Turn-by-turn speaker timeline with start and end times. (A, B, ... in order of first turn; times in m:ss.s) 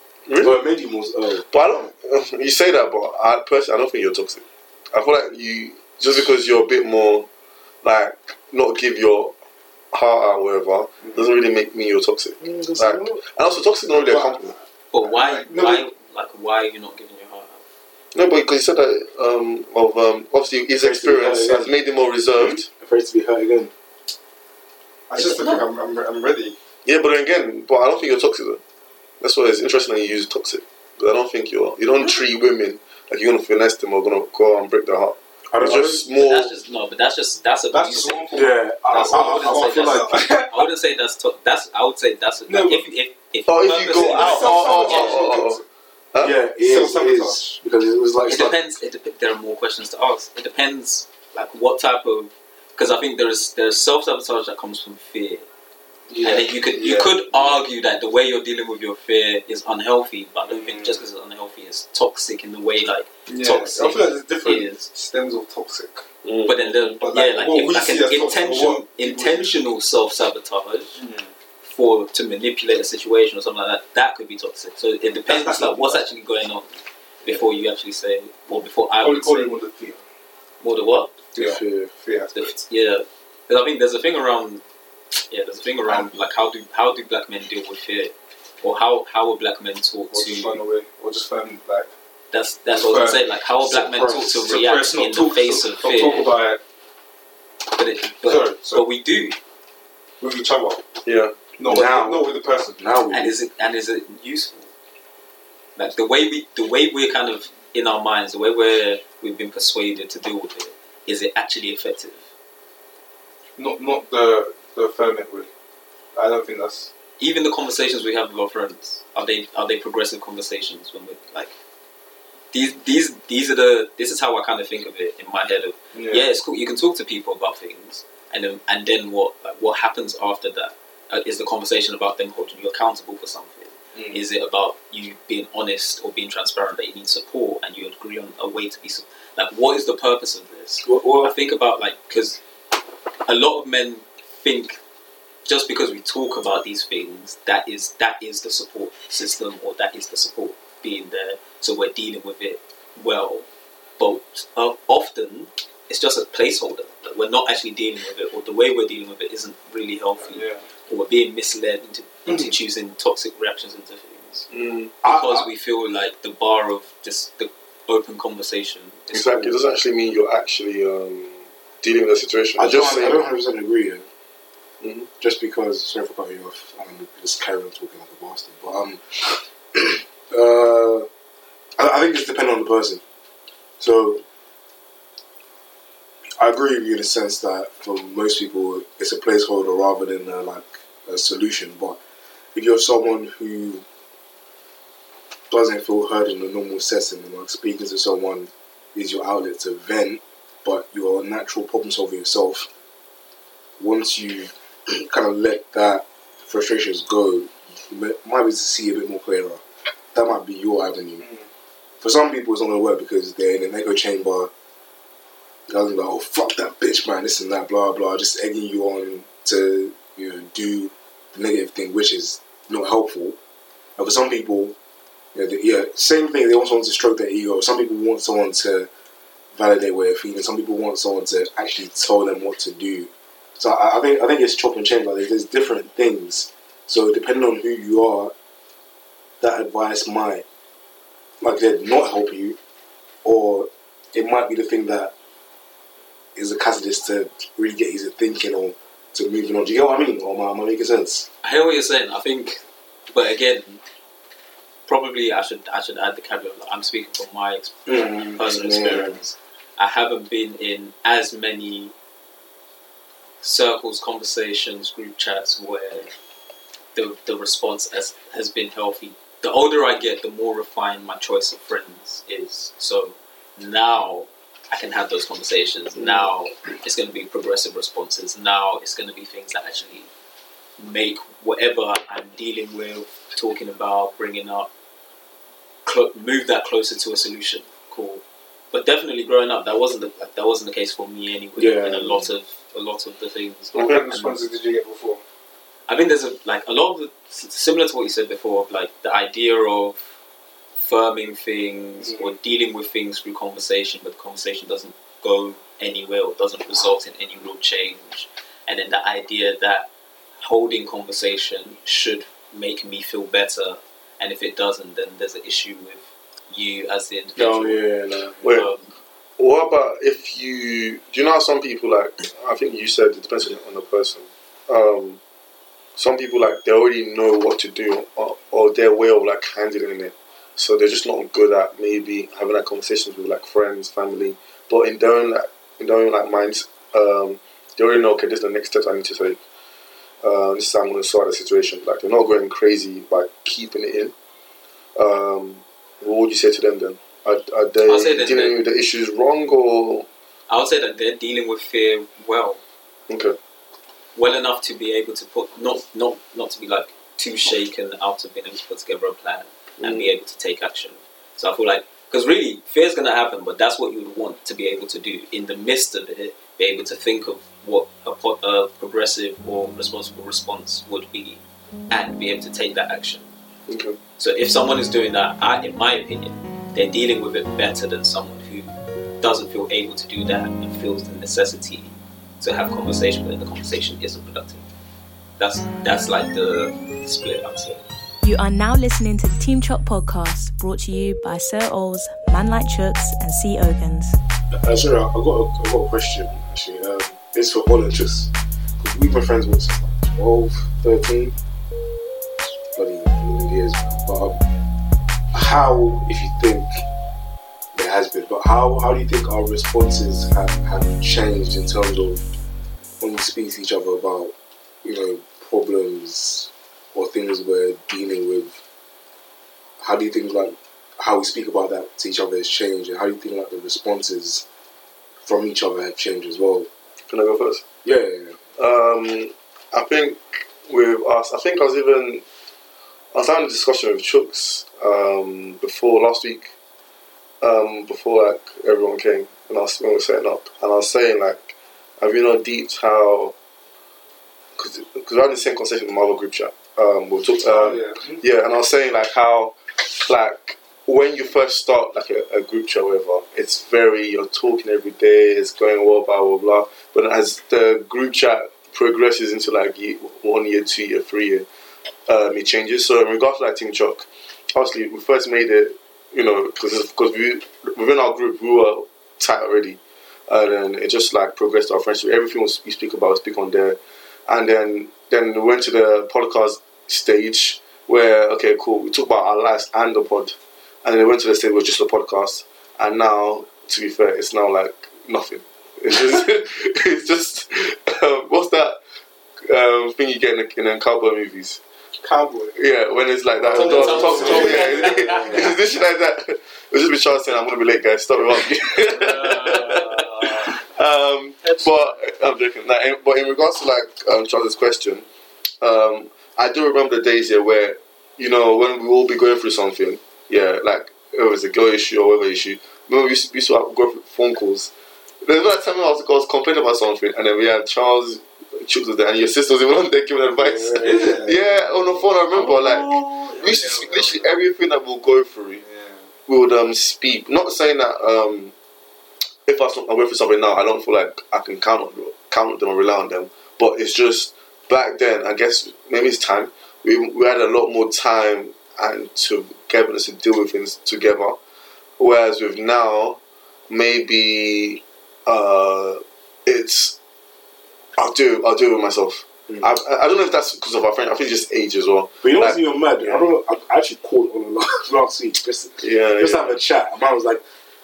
0:00.3-0:00.6 A
0:00.4-0:01.5 B
0:01.5-0:07.3 A
0:07.8-0:09.3 A
0:09.9-0:14.5 A
0:12.4-0:13.2 B
0:14.0-0:14.4 C
0:14.9-0:17.6 D
0:15.0-0:15.8 C
0:18.1-0:22.7 A
0:20.7-0:21.8 B
0:22.4-0:23.7 B
0:25.1-0:26.6 C
0:25.2-0:25.6 D
0:26.8-0:28.6 A
0:29.2-0:36.5 A
0:35.5-0:36.0 B
0:36.1-0:45.4 D
0:37.7-0:40.6 C
0:38.3-0:40.1 B
0:42.5-0:42.8 C
0:43.5-0:45.6 A
0:43.9-0:45.6 C
0:46.1-0:46.4 A
0:46.2-0:48.6 B
0:46.6-0:47.4 C
0:48.3-0:55.5 D
0:56.1-0:57.6 C
0:56.2-1:04.9 D
1:00.5-1:01.0 C
1:03.3-1:06.0 C
1:06.2-1:07.0 A
1:06.5-1:11.0 D
1:06.6-1:09.6 C
1:11.0-1:11.3 C
1:11.6-1:16.7 D
1:15.3-1:16.0 C
1:17.2-1:19.6 D
1:19.0-1:20.0 C
1:20.6-1:21.2 D
1:21.4-1:22.6 C
1:21.4-1:21.9 B
1:22.3-1:24.6 D
1:25.3-1:30.6 D
1:30.1-1:31.9 C
1:32.3-1:36.3 D
1:32.7-1:33.3 C
1:33.6-1:34.4 B
1:34.2-1:36.6 C
1:37.7-1:39.4 D
1:38.2-1:38.8 C
1:40.2-1:40.8 C
1:41.1-1:41.4 A
1:41.6-1:42.8 C
1:41.6-1:43.4 B
1:43.1-1:44.7 D
1:45.8-1:52.2 D
1:53.6-1:55.5 C
1:56.2-1:56.9 C
1:57.2-2:01.6 D
2:02.5-2:22.4 D
2:05.9-2:06.3 C
2:20.8-2:21.3 B
2:23.3-2:24.8 D
2:25.5-2:33.5 D
2:34.0-2:44.5 D
2:40.2-2:40.6 C
2:44.5-2:44.9 A
2:45.0-2:45.5 B
2:45.0-2:49.6 D
2:49.1-2:53.3 A
2:52.6-2:54.0 B
2:54.8-2:55.1 A
2:55.2-3:01.1 B
3:01.8-3:03.0 B
3:03.8-3:04.2 B
3:06.4-3:12.0 B
3:12.6-3:13.8 B
3:15.5-3:22.7 B
3:23.8-3:29.6 B
3:30.1-3:31.2 B
3:32.0-3:34.5 B
3:35.7-3:43.4 B
3:44.0-3:44.8 B
3:45.3-3:48.9 B
3:49.5-3:58.3 B
3:59.4-4:00.4 B
4:01.4-4:02.6 B
4:03.2-4:05.1 B
4:06.4-4:11.3 B
4:11.4-4:13.7 D
4:14.9-4:21.9 D
4:17.9-4:19.2 B
4:23.4-4:26.1 D
4:26.9-4:40.1 D
4:36.0-4:36.3 B
4:40.8-4:44.7 D
4:45.8-4:54.4 D
4:51.6-4:52.3 B
4:53.7-4:54.1 A
4:53.7-4:55.2 C
4:55.9-5:00.0 D
5:00.8-5:09.9 D
5:10.4-5:17.8 D
5:17.4-5:18.4 B
5:18.4-5:18.7 A
5:18.4-5:18.8 D
5:19.4-5:25.2 A
5:26.0-5:39.4 A
5:40.2-5:44.1 A
5:45.0-5:50.1 A
5:47.8-5:48.6 D
5:50.5-5:52.6 D
5:53.1-5:53.4 A
5:54.2-6:13.3 D
5:59.8-6:00.1 A
6:13.7-6:14.0 A
6:14.2-6:24.6 D
6:25.4-6:27.8 D
6:28.2-6:34.2 E
6:34.5-6:41.4 B
6:42.7-6:44.4 B
6:45.3-6:46.8 B
6:47.7-6:52.2 B
6:53.0-6:58.6 B
6:59.8-7:04.5 B
7:05.2-7:06.7 B
7:07.1-7:07.6 A
7:07.8-7:08.4 B
7:08.6-7:12.2 A
7:13.1-7:16.5 A
7:17.4-7:23.3 A
7:24.6-7:41.5 A
7:27.5-7:28.1 C
7:42.1-8:08.8 A
8:09.4-8:11.6 A
8:12.0-8:12.6 C
8:12.6-8:25.0 A
8:13.5-8:15.5 C
8:13.5-8:15.6 D
8:13.8-8:14.4 B
8:18.8-8:20.6 D
8:25.6-8:34.7 A
8:35.2-8:45.6 A
8:40.6-8:41.1 B
8:40.6-8:41.6 C
8:42.8-8:43.4 D
8:43.4-8:44.4 C
8:45.6-8:46.1 C
8:46.3-8:48.5 A
8:49.5-9:01.4 A
9:02.0-9:07.0 A
9:08.0-9:13.2 A
9:12.2-9:17.4 B
9:15.8-9:16.6 A